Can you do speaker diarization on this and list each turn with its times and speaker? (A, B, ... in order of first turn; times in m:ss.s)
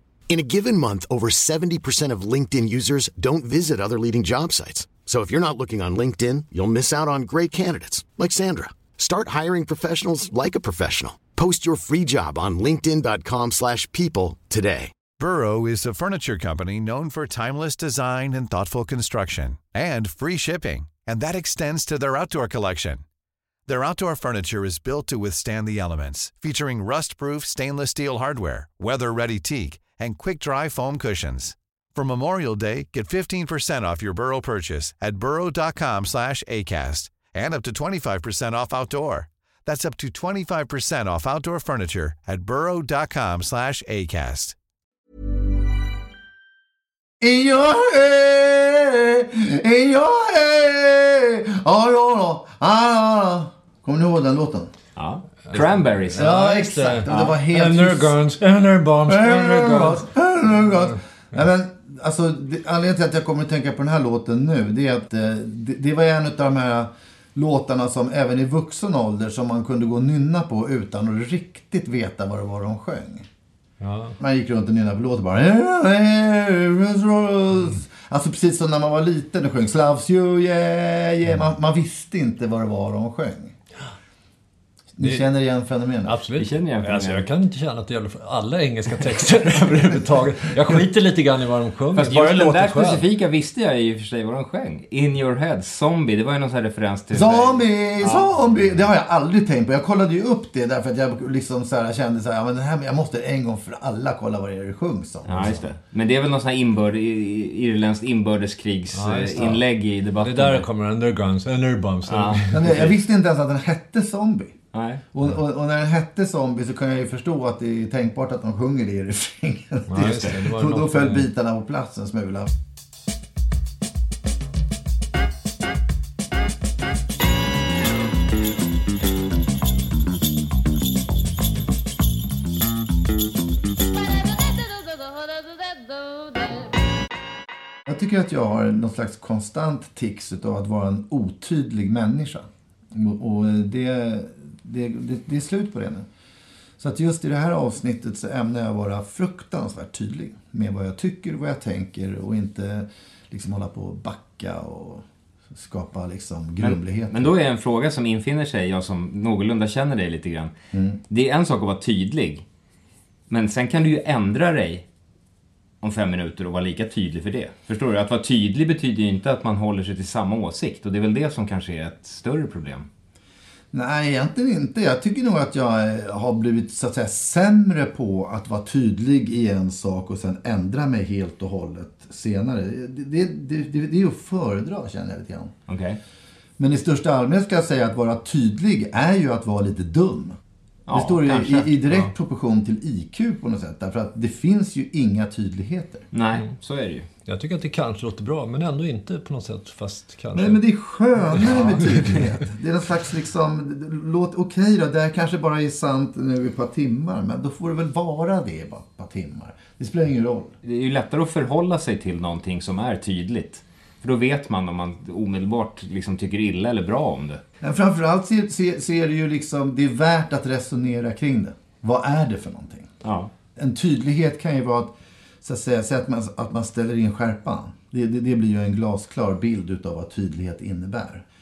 0:00.3-0:15.0 A
0:15.2-0:23.0 B
0:23.7-0:44.6 B
0:47.2-0:54.7 C
0:55.0-0:56.2 D
0:55.5-1:00.1 E
0:56.2-0:58.2 C
0:59.1-1:13.3 C
1:13.8-1:14.2 E
1:14.2-1:23.6 C
1:25.0-1:26.2 C
1:25.0-1:25.3 E
1:26.0-1:33.1 E
1:26.4-1:27.3 D
1:32.0-1:38.3 D
1:37.1-1:45.6 C
1:45.3-1:50.6 D
1:48.9-1:49.6 E
1:50.2-1:52.9 E
1:52.1-1:52.9 D
1:52.5-1:54.6 C
1:54.7-1:55.0 D
1:55.1-2:02.5 C
1:59.9-2:01.3 E
2:00.0-2:00.4 D
2:17.9-2:26.1 C
2:26.8-2:37.3 C
2:36.6-2:40.5 D
2:40.7-2:41.0 C
2:41.1-2:42.4 D
2:43.3-2:44.9 D
2:45.8-2:52.9 D
2:53.7-3:05.5 C
3:05.7-3:06.0 D
3:06.6-3:10.4 C
3:10.9-3:11.7 D
3:10.9-3:16.1 C
3:16.1-3:17.1 D
3:17.3-3:20.6 E
3:20.4-3:30.5 C
3:21.8-3:22.2 E
3:30.6-3:37.4 D
3:37.6-3:42.9 C
3:43.0-3:43.3 D
3:43.6-3:51.2 C